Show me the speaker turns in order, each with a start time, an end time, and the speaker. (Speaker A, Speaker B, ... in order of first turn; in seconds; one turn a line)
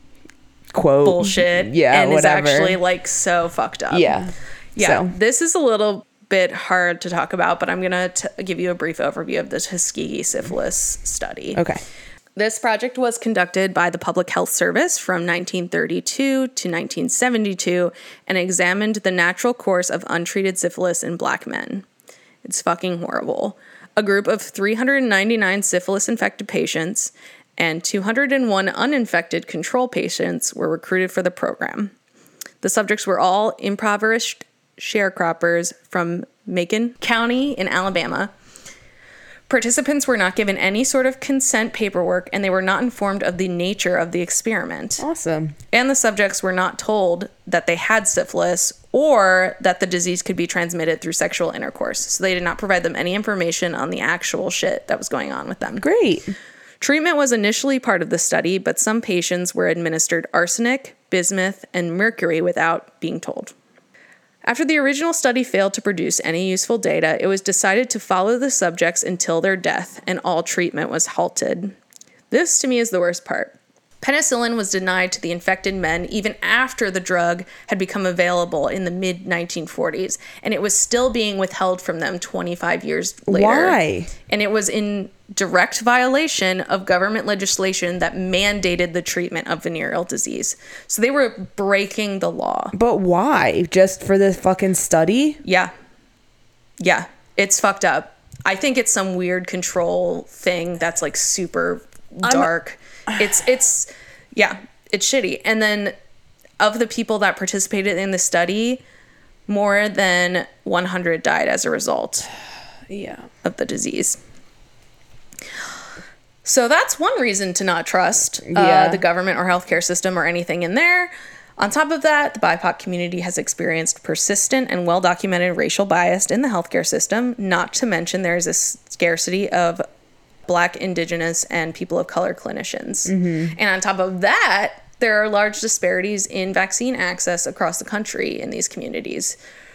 Speaker A: 0.7-2.8
Speaker B: 1.0-4.2
Speaker A: 3.9-5.1
Speaker B: 4.8-11.6
Speaker A: 11.5-11.8
Speaker B: 12.4-21.8
Speaker B: 22.4-31.9
Speaker B: 32.6-38.3
Speaker B: 39.5-45.0
Speaker A: 45.0-45.5
Speaker B: 45.7-55.9
Speaker A: 55.8-56.3
Speaker B: 56.8-63.5
Speaker B: 64.4-71.7
Speaker B: 72.3-92.7
Speaker A: 83.3-84.1
Speaker A: 92.7-95.4
Speaker B: 95.4-95.7
Speaker B: 96.8-105.9
Speaker A: 102.2-102.5
Speaker B: 106.6-108.8
Speaker B: 109.5-112.3
Speaker A: 112.9-113.3
Speaker B: 113.4-114.2
Speaker B: 116.4-129.8
Speaker A: 118.5-119.0
Speaker B: 130.4-139.4
Speaker A: 133.1-133.6